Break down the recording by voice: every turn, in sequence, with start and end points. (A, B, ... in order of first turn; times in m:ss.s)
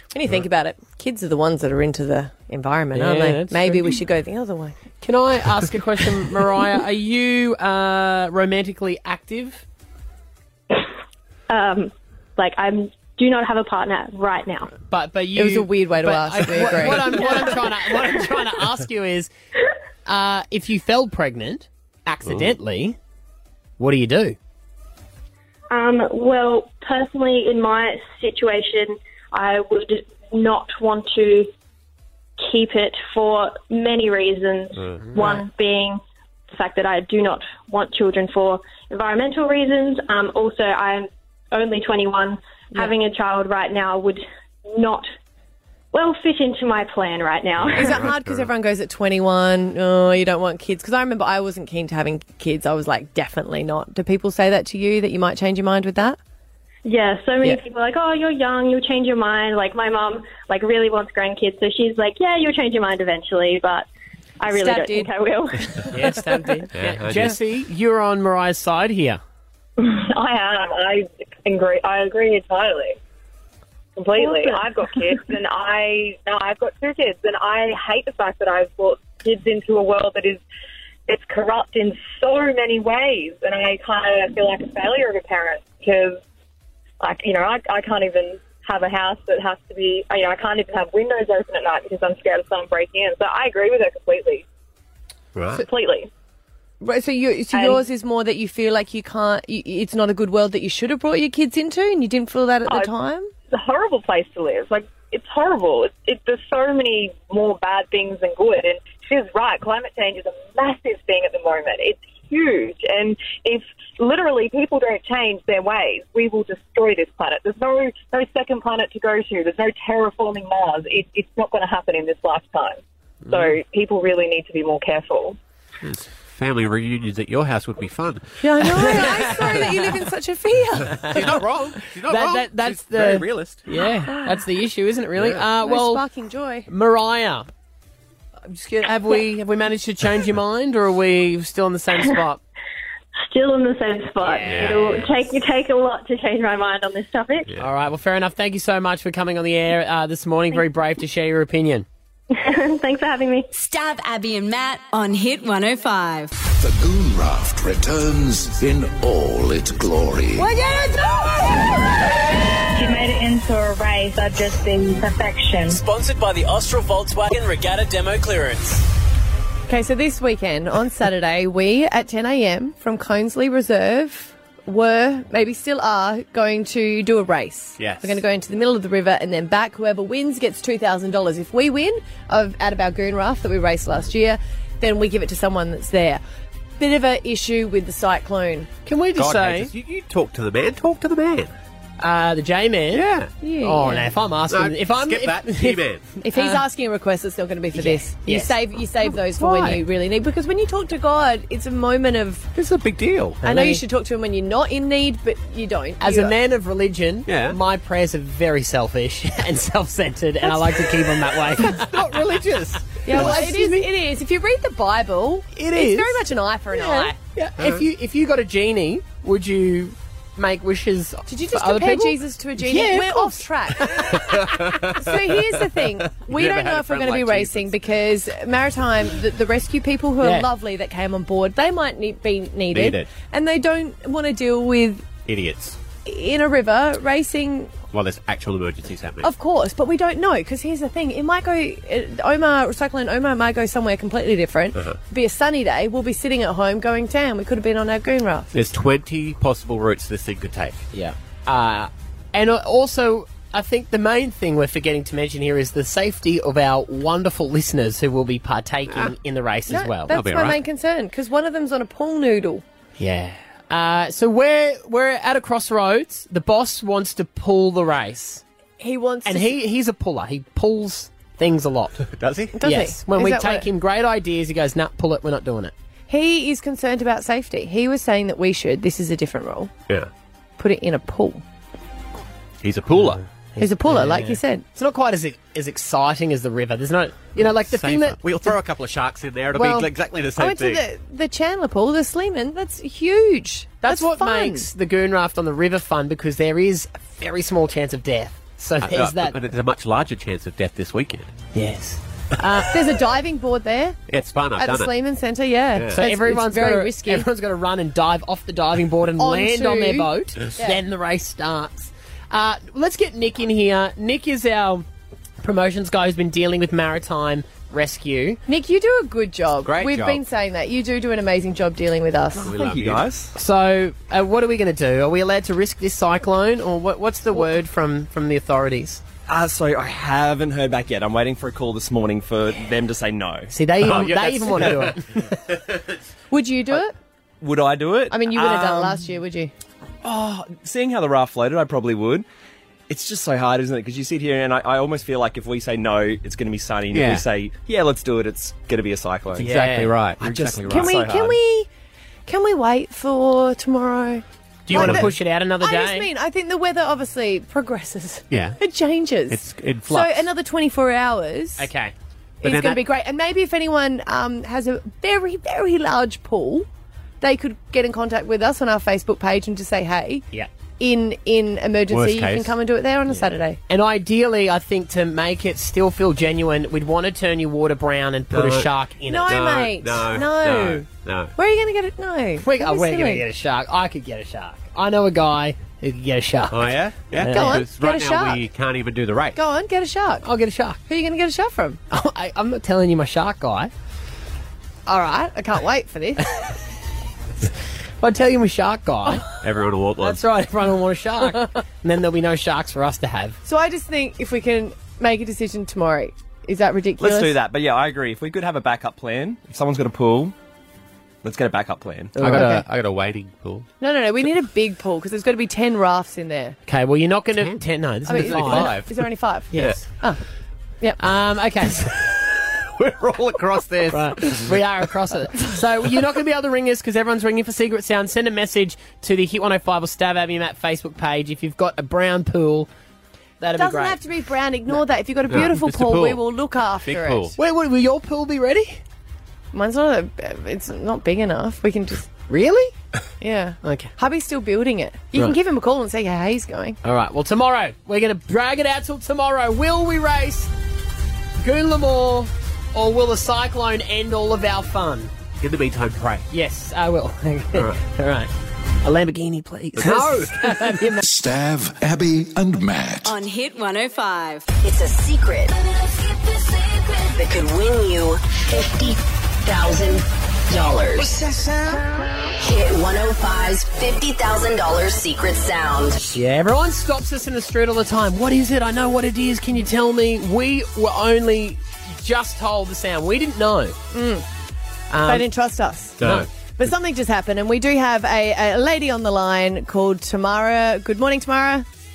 0:00.1-0:04.8 A
0:02.9-0:03.9 B
0:05.0-0:09.6 B
0:11.5-0:14.7 C
0:14.9-0:19.3 B
0:15.4-0:17.6 A
0:20.1-0:23.0 B
0:22.3-0:22.5 D
0:23.8-0:24.4 B
0:25.7-0:31.5 C
0:32.4-0:36.0 C
0:36.5-0:45.1 C
0:45.9-0:48.0 C
0:47.6-0:48.5 D
0:47.7-0:56.2 A
0:56.8-1:03.9 C
1:04.4-1:05.8 C
1:04.5-1:05.1 A
1:05.9-1:09.2 B
1:05.9-1:06.6 A
1:06.8-1:07.4 D
1:09.8-1:13.0 E
1:14.0-1:20.4 E
1:14.2-1:14.6 C
1:21.1-1:26.2 E
1:27.0-1:34.4 E
1:35.4-1:35.7 D
1:35.5-1:36.1 E
1:36.8-1:43.3 A
1:37.5-1:37.8 E
1:42.7-1:42.9 E
1:43.5-2:02.8 E
2:03.3-2:03.5 B
2:03.3-2:05.4 E
2:05.8-2:09.9 D
2:08.4-2:11.4 A
2:11.0-2:11.4 B
2:11.1-2:13.6 D
2:12.1-2:16.0 B
2:14.1-2:14.4 A
2:15.2-2:15.5 D
2:15.6-2:16.7 A
2:16.7-2:17.5 B
2:18.5-2:22.4 B
2:23.3-2:27.5 C
2:24.2-2:25.1 B
2:24.4-2:25.2 D
2:27.5-2:27.7 D
2:27.6-2:31.9 B
2:32.3-2:33.5 C
2:33.6-2:36.3 F
2:36.6-2:40.5 G
2:42.7-2:45.8 H
2:49.7-3:06.2 A
2:57.8-2:58.2 D
3:06.8-3:08.7 A
3:08.9-3:09.7 B
3:09.2-3:11.6 D
3:12.0-3:13.1 B
3:12.9-3:13.3 D
3:13.4-3:14.1 A
3:13.6-3:15.8 B
3:14.5-3:16.1 D
3:16.2-3:22.5 A
3:16.3-3:16.6 B
3:17.7-3:18.6 B
3:19.4-3:19.8 D
3:22.6-3:23.4 D
3:23.4-3:26.4 A
3:23.4-3:23.8 B
3:26.0-3:33.9 B
3:27.3-3:27.6 D
3:31.6-3:33.5 D
3:33.1-3:37.2 A
3:35.5-3:43.9 B
3:41.3-3:55.1 A
3:44.0-3:47.8 D
3:50.2-3:50.5 B
3:52.7-3:53.1 D
3:55.2-3:55.8 D
3:56.0-3:57.8 A
3:57.9-3:59.3 D
3:59.2-4:08.5 A
4:08.5-4:10.8 D
4:10.9-4:20.1 B
4:19.7-4:22.6 A
4:20.1-4:20.6 D
4:23.0-4:28.4 B
4:28.8-4:29.6 A
4:29.2-4:32.0 B
4:32.1-4:32.6 D
4:32.6-4:33.7 A
4:32.6-4:35.7 B
4:36.1-4:39.7 A
4:40.6-4:41.4 A
4:42.6-4:43.2 D
4:42.9-4:48.6 B
4:43.6-4:44.6 A
4:47.4-4:50.8 D
4:49.5-4:49.9 B
4:50.4-4:54.7 A
4:53.8-4:59.4 B
4:58.8-5:01.3 D
5:01.5-5:02.7 B
5:02.7-5:04.0 A
5:04.1-5:04.9 D
5:04.6-5:07.3 A
5:05.8-5:06.0 D
5:05.9-5:14.8 B
5:09.2-5:10.8 A
5:15.4-5:18.4 B
5:18.5-5:22.6 A
5:19.6-5:20.2 D
5:22.4-5:23.1 D
5:22.6-5:23.3 I
5:23.4-5:29.0 B
5:29.3-5:33.5 I
5:33.5-5:35.4 B
5:33.8-5:35.0 D
5:35.5-5:35.8 D
5:36.3-5:36.9 A
5:37.4-5:38.9 I
5:38.1-5:39.5 A
5:40.0-5:42.3 I
5:42.9-5:49.5 I
5:46.9-5:47.3 D
5:49.4-5:51.4 D
5:49.4-5:50.0 B
5:50.2-5:51.1 I
5:50.7-5:51.7 A
5:52.3-6:01.7 A
5:54.7-5:56.1 B
5:54.7-5:55.1 D
5:58.3-5:58.6 D
5:59.3-6:00.3 D
6:01.6-6:01.9 B
6:02.4-6:06.7 A
6:02.4-6:02.8 D
6:07.2-6:10.2 A
6:10.8-6:13.6 A
6:11.9-6:12.6 D
6:13.7-6:19.4 B
6:18.3-6:21.3 D
6:19.1-6:23.2 A
6:22.4-6:27.6 B
6:26.5-6:29.4 D
6:27.3-6:28.5 A
6:29.4-6:30.2 A
6:30.2-6:30.8 B
6:30.9-6:31.8 A
6:31.9-6:33.7 B
6:34.9-6:36.3 A
6:38.0-6:39.3 B
6:39.4-6:40.2 D
6:40.0-6:43.4 B
6:43.4-6:47.4 A
6:47.0-6:50.3 I
6:51.2-6:52.2 I
6:52.2-6:52.6 B
6:52.2-6:53.7 D
6:53.8-6:56.6 A
6:56.7-6:58.8 B
6:57.4-6:59.9 D
6:58.1-7:00.2 A
6:59.5-6:59.9 B
7:01.0-7:01.9 B
7:02.8-7:04.6 D
7:03.9-7:12.7 B
7:13.4-7:14.0 B
7:13.6-7:17.3 A
7:15.3-7:16.3 D
7:16.8-7:17.4 D
7:17.4-7:18.8 B
7:19.5-7:22.1 A
7:22.3-7:22.7 B
7:23.2-7:26.8 A
7:23.6-7:23.9 B
7:26.8-7:30.5 B
7:31.4-7:35.1 B
7:35.4-7:36.2 D
7:36.3-7:38.3 B
7:37.5-7:37.8 D
7:38.8-7:41.0 B
7:39.8-7:40.6 D
7:41.0-7:43.1 G
7:43.0-7:44.5 F
7:44.6-7:45.5 J
7:47.1-7:51.2 J
7:52.4-7:56.0 J
7:56.1-8:03.8 B
8:03.9-8:04.2 A
8:04.9-8:05.3 B
8:05.0-8:06.0 A
8:06.0-8:06.3 D
8:06.0-8:06.3 B
8:06.6-8:11.7 A